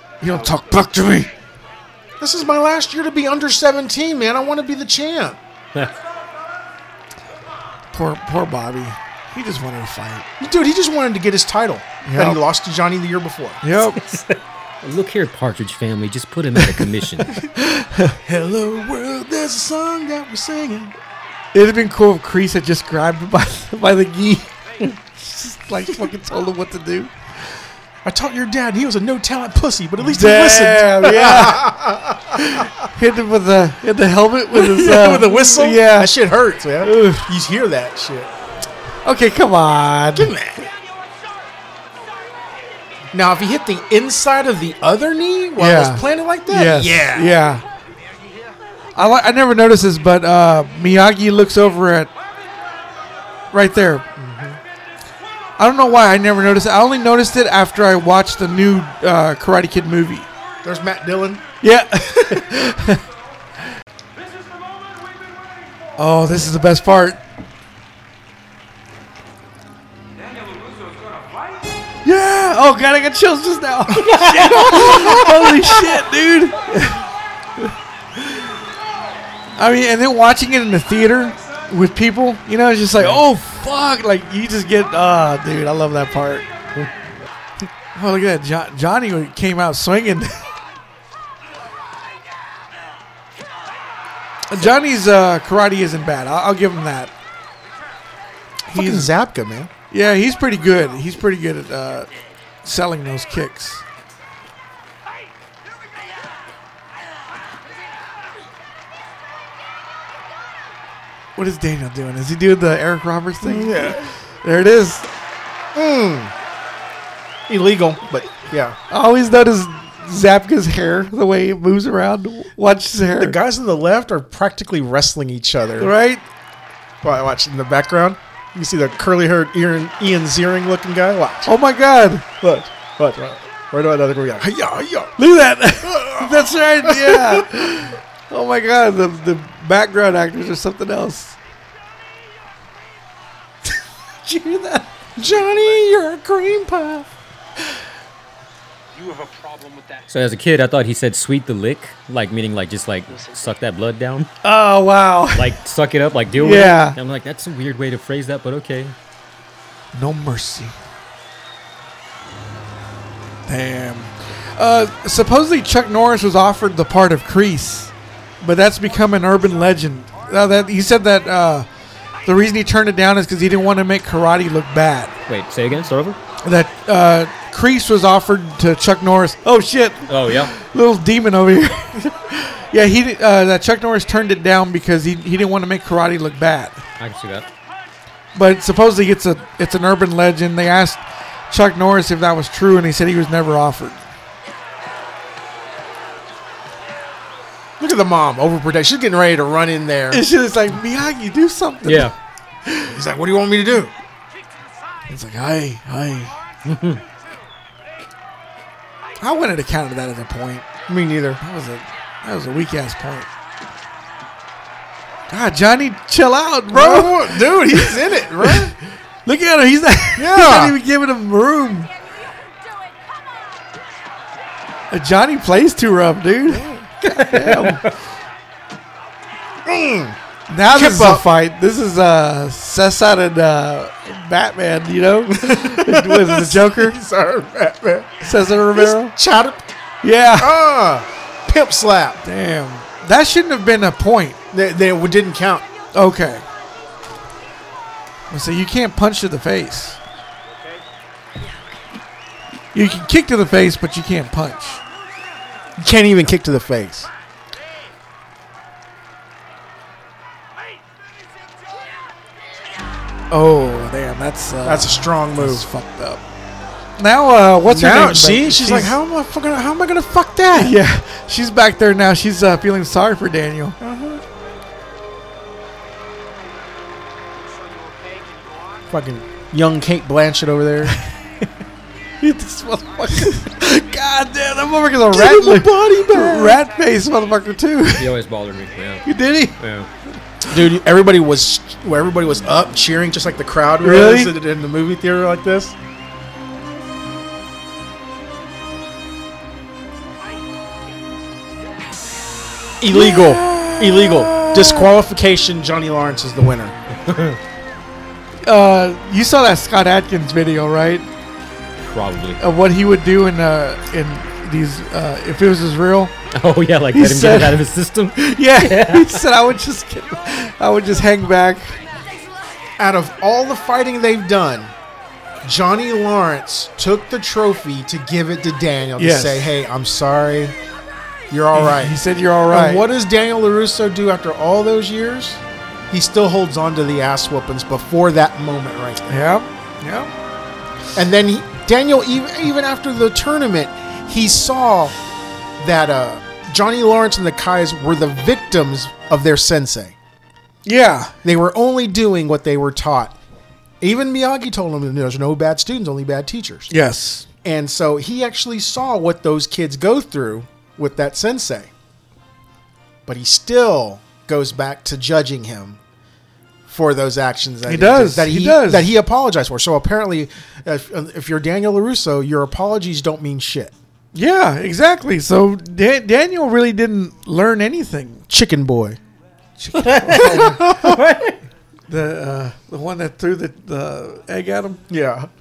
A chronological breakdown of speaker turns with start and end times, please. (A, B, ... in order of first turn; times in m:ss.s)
0:00.2-0:01.3 A
0:02.2-0:05.4 B
0:07.9-0:10.3 A
0:10.4-0:13.6 B
0:12.0-0:12.4 A
0:13.6-0:14.0 A
0:14.0-0:17.3 C
0:17.6-0:18.2 A
0:18.2-0:20.9 B
0:21.5-0:27.1 A
0:28.0-0:32.9 B
0:30.0-0:31.7 A
0:32.3-0:36.3 A
0:34.5-0:38.3 B
0:36.8-0:37.3 A
0:39.0-0:40.3 A
0:40.1-0:40.6 B
0:43.1-0:47.3 B
0:45.6-0:47.6 A
0:49.0-0:52.1 A
0:53.5-0:54.0 A
0:54.2-0:54.6 B
0:55.6-1:00.3 A
1:00.6-1:01.4 B
1:01.6-1:03.0 A
1:04.2-1:05.9 D
1:06.0-1:07.2 A
1:10.1-1:11.7 D
1:12.0-1:17.0 A
1:13.9-1:15.8 C
1:19.6-1:26.5 A
1:27.9-1:30.3 A
1:34.5-1:37.1 A
1:38.7-1:39.1 A
1:38.7-1:39.7 B
1:39.9-1:42.1 A
1:42.6-1:43.8 A
1:51.4-1:55.0 A
1:53.4-1:54.1 B
1:55.7-1:56.3 B
1:57.5-1:58.8 B
1:58.9-2:03.4 A
2:03.2-2:05.9 B
2:05.8-2:06.2 A
2:07.0-2:11.5 B
2:11.4-2:12.2 A
2:12.4-2:15.2 B
2:15.2-2:21.4 A
2:15.8-2:17.5 B
2:24.2-2:24.9 A
2:25.2-2:27.1 B
2:25.2-2:25.8 D
2:28.9-2:30.1 D
2:30.1-2:34.3 C
2:34.4-2:35.6 A
2:35.3-2:38.9 C
2:36.4-2:37.0 A
2:39.9-2:40.8 A
2:43.5-2:51.7 A
2:52.2-2:55.1 A
2:55.3-2:56.2 C
2:56.4-3:06.8 A
3:00.1-3:00.5 C
3:07.0-3:07.5 C
3:08.3-3:14.0 A
3:17.8-3:20.2 B
3:20.1-3:22.1 A
3:21.8-3:22.1 C
3:22.6-3:22.9 A
3:22.9-3:23.9 B
3:25.1-3:26.3 A
3:26.6-3:27.0 C
3:29.2-3:30.7 A
3:30.9-3:31.4 B
3:31.4-3:33.3 A
3:35.3-3:38.6 A
3:36.7-3:38.7 B
3:39.2-3:41.9 A
3:40.2-3:40.8 B
3:44.9-3:47.8 A
3:46.5-3:46.8 B
3:47.0-3:47.9 C
3:49.6-3:50.2 B
3:50.5-3:57.0 A
3:50.7-3:51.3 B
3:55.3-3:59.6 B
3:58.2-3:59.1 A
4:00.0-4:00.6 A
4:00.4-4:02.2 B
4:02.2-4:04.4 A
4:04.5-4:05.6 B
4:05.9-4:06.4 A
4:08.3-4:10.0 A
4:12.7-4:14.8 A
4:15.8-4:17.1 B
4:23.3-4:26.2 A
4:24.6-4:25.7 B
4:27.0-4:29.0 A
4:27.6-4:30.8 B
4:30.5-4:33.8 A
4:33.8-4:34.2 B
4:37.8-4:38.8 D
4:38.9-4:41.0 B
4:40.9-4:41.4 A
4:42.2-4:48.1 A
4:45.1-4:46.6 B
4:48.0-4:49.0 C
4:49.0-4:49.6 A
4:49.6-4:49.9 C
4:50.5-4:55.7 B
4:53.8-4:54.4 A
5:02.8-5:06.8 B
5:02.9-5:04.9 A
5:07.0-5:07.4 C
5:08.4-5:11.0 A
5:11.8-5:12.4 C
5:12.4-5:16.1 A
5:16.3-5:19.2 C
5:16.9-5:17.6 A
5:18.2-5:21.8 A
5:22.8-5:24.7 B
5:25.4-5:30.6 B
5:29.0-5:29.6 A
5:31.3-5:39.2 B
5:31.6-5:32.9 A
5:39.1-5:40.1 A
5:41.0-5:45.0 B
5:45.6-5:50.0 B
5:50.6-5:51.1 A
5:51.2-5:53.2 B
5:53.8-5:56.7 B
5:56.7-5:57.3 A
5:57.4-6:01.7 B
6:03.0-6:05.8 B
6:06.6-6:13.7 B
6:07.7-6:08.9 A
6:14.1-6:18.3 A
6:18.3-6:19.0 B
6:19.6-6:20.6 A
6:19.8-6:21.4 C
6:20.1-6:21.0 B
6:21.9-6:24.8 A
6:24.9-6:25.3 B